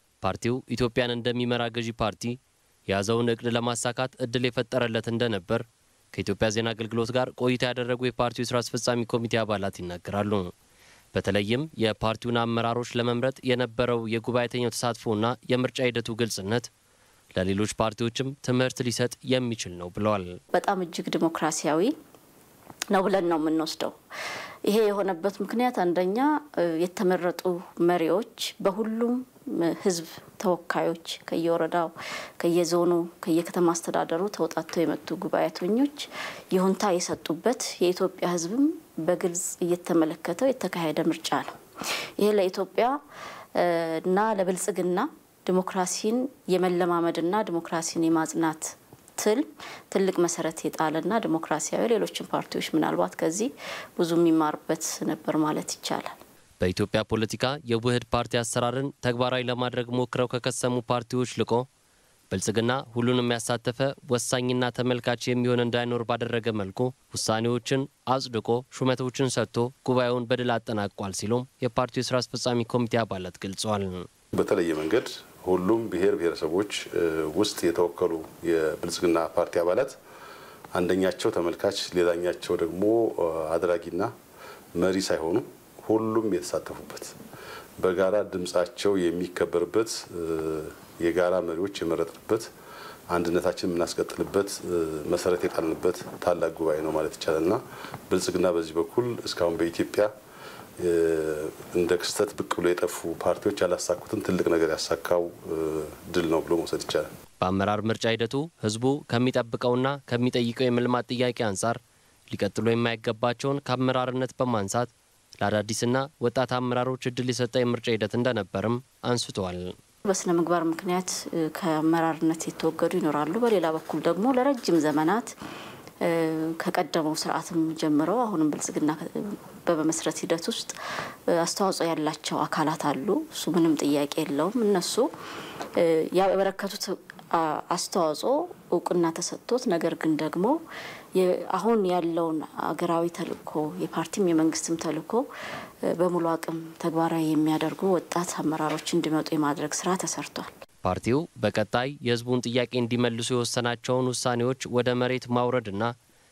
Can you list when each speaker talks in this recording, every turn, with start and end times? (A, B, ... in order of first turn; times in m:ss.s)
0:00.2-0:10.5 A
0:11.1-0:16.7 A
0:17.3-0:20.4 A
0:20.5-0:21.9 B
0:22.9-0:24.0 B
0:24.7-0:41.5 B
0:42.2-0:43.0 B
0:43.5-0:56.2 B
0:56.6-1:01.7 A
1:02.3-1:14.1 A
1:14.3-1:20.0 C
1:20.7-1:24.1 C
1:24.7-1:27.2 C
1:27.8-1:32.5 C
1:33.1-1:40.1 C
1:40.8-1:47.1 C
1:47.4-1:51.8 A
1:52.3-1:59.7 A
2:00.0-2:05.3 B
2:06.0-2:10.7 B
2:11.4-2:15.1 B
2:15.8-2:20.6 B
2:21.1-2:25.3 B
2:26.0-2:30.5 B
2:30.8-2:35.9 A